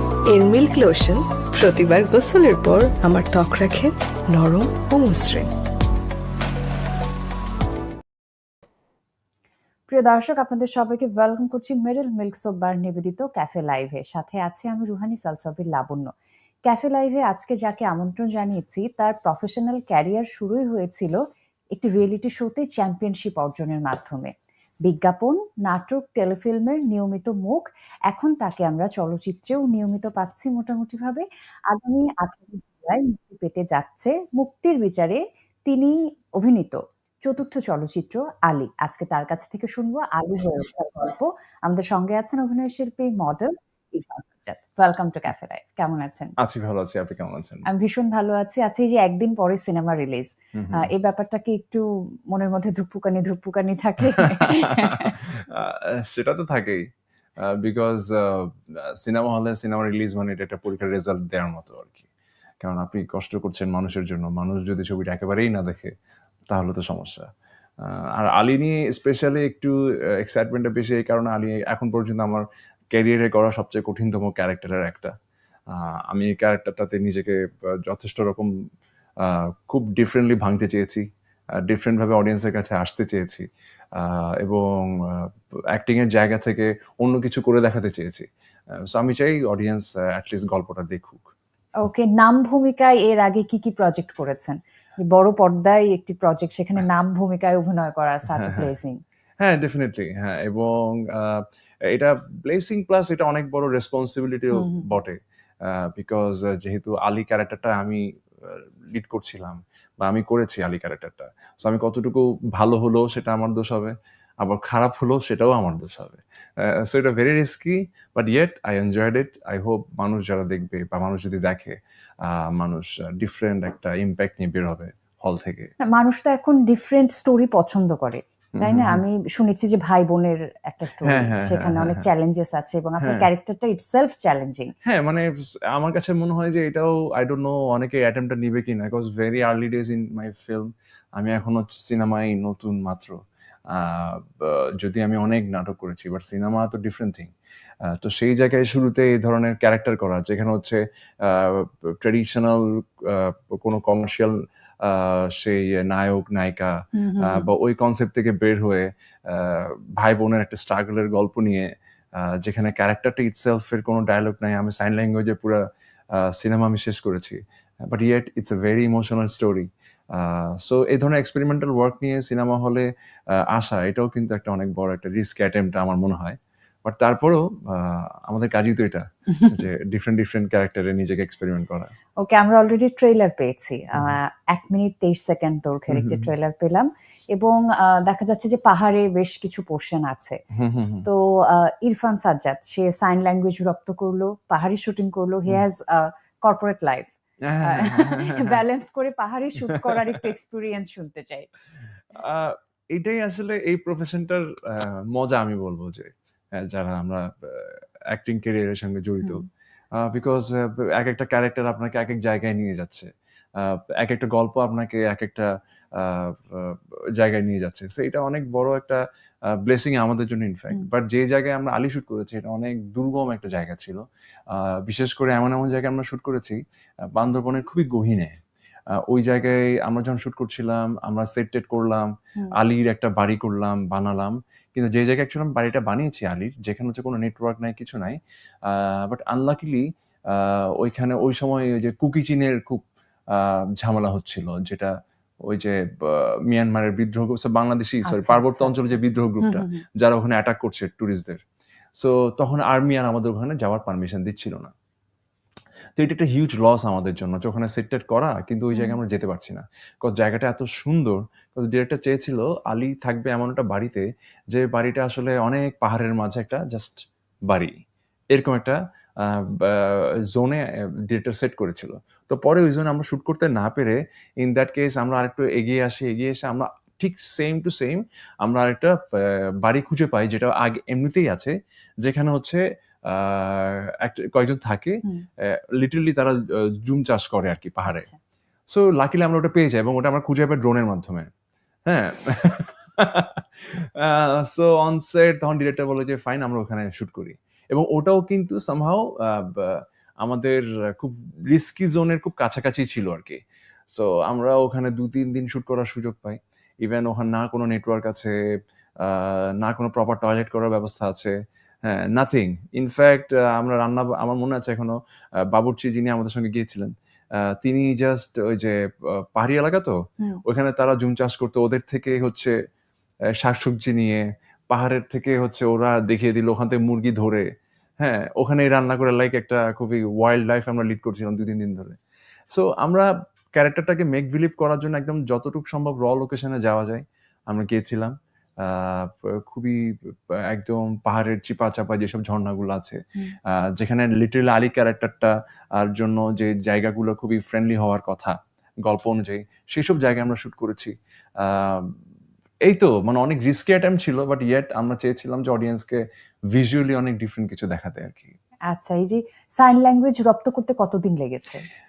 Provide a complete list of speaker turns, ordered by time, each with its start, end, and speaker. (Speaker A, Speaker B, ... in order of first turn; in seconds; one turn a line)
Speaker A: 0.2-5.5
Speaker B: 9.9-16.1
Speaker B: 16.6-21.2
Speaker B: 21.7-24.3
Speaker B: 24.8-46.3
Speaker C: 46.4-47.7
Speaker B: 47.7-55.2
Speaker C: 50.5-50.9
Speaker C: 54.1-56.9
Speaker C: 57.4-62.0
Speaker C: 62.6-65.9
Speaker C: 66.5-67.3
Speaker C: 67.8-75.1
Speaker C: 75.7-78.5
Speaker C: 79.2-81.0
Speaker C: 81.7-83.5
Speaker C: 84.0-88.2
Speaker C: 88.8-91.3
Speaker B: 91.8-99.0
Speaker C: 98.4-98.7
Speaker C: 99.4-125.7
Speaker B: 104.5-105.0
Speaker B: 125.8-134.7
Speaker C: 128.6-129.0
Speaker C: 131.0-132.1
Speaker C: 133.0-133.3
Speaker C: 134.8-143.2
Speaker C: 143.7-147.3
Speaker C: 147.9-181.9
Speaker B: 156.9-157.5
Speaker B: 182.2-190.4
Speaker C: 185.9-186.3
Speaker C: 190.5-191.1
Speaker B: 191.0-201.5
Speaker C: 197.4-198.6
Speaker C: 199.7-200.2
Speaker C: 202.1-226.6
Speaker C: 227.1-228.4
Speaker C: 229.1-244.9
Speaker C: 245.5-251.4
Speaker B: 248.0-249.8
Speaker C: 251.9-254.7
Speaker C: 256.0-267.7
Speaker C: 268.3-288.1
Speaker B: 287.9-288.1
Speaker C: 288.7-291.3
Speaker C: 291.9-303.4
Speaker C: 303.9-308.3
Speaker C: 309.0-311.3
Speaker C: 311.9-314.9
Speaker C: 315.5-322.5
Speaker C: 323.4-327.4
Speaker C: 328.0-332.0
Speaker C: 332.5-351.9
Speaker C: 352.6-356.0
Speaker C: 356.5-358.3
Speaker B: 358.7-361.6